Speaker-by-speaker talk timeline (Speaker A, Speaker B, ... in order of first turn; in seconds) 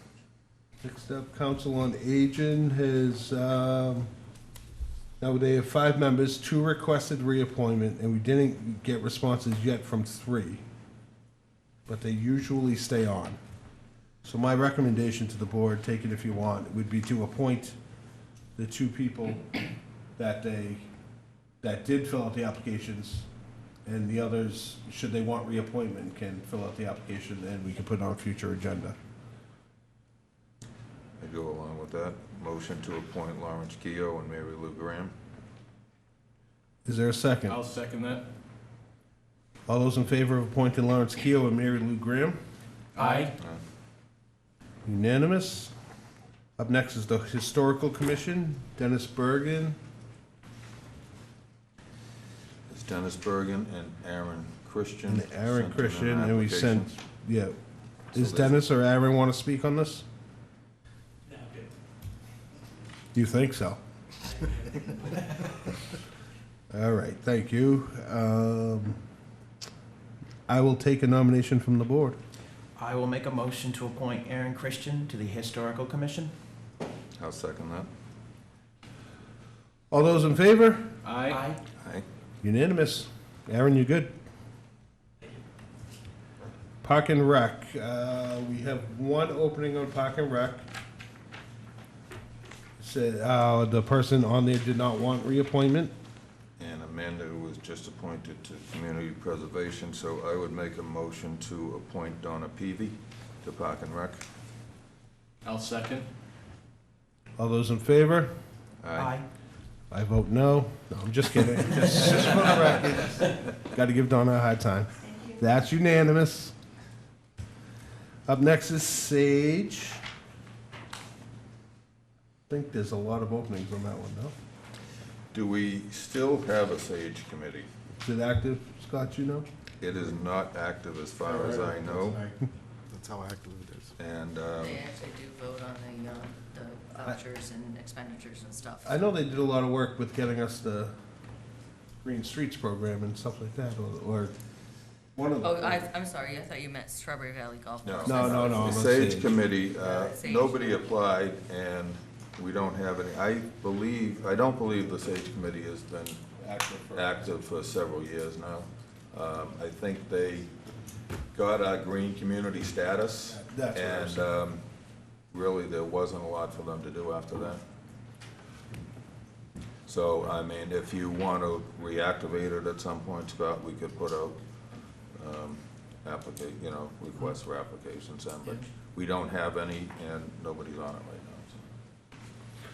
Speaker A: 0.8-4.1, 5.2-10.6, 11.9-13.4, 14.2-17.8, 18.6-19.6, 20.2-20.9, 21.6-23.3, 23.9-28.9, 36.8-37.6, 39.7-42.4, 44.9-45.7, 46.6-49.8, 55.1-57.5, 58.1-60.0, 63.1-63.8, 66.7-69.0, 70.5-72.2, 79.9-80.9, 82.4-84.1, 86.8-90.6, 92.8-95.9, 107.4-108.3, 109.9-116.5, 118.3-120.0, 122.5-124.3, 128.0-129.4, 138.8-140.9, 142.0-144.3, 145.2-145.9, 148.1-149.4, 156.4-157.4, 163.3-164.3
Speaker B: 31.2-35.1, 52.7-56.9, 58.1-58.6, 77.2-77.9, 96.6-104.2, 108.8-109.1, 125.3-127.7, 129.8-132.2, 134.0-134.9, 147.8-156.2, 156.9-160.5, 161.3-164.6, 165.3-167.6, 169.8-174.4, 175.1-181.6
Speaker C: 37.5-38.2, 43.0-43.3, 81.0-81.4, 105.4-106.1
Speaker D: 43.0-43.3, 72.8-76.3, 81.3-81.6, 108.9-109.3
Speaker E: 131.2-133.9
Speaker F: 134.6-138.9, 145.4-148.8, 149.8-150.8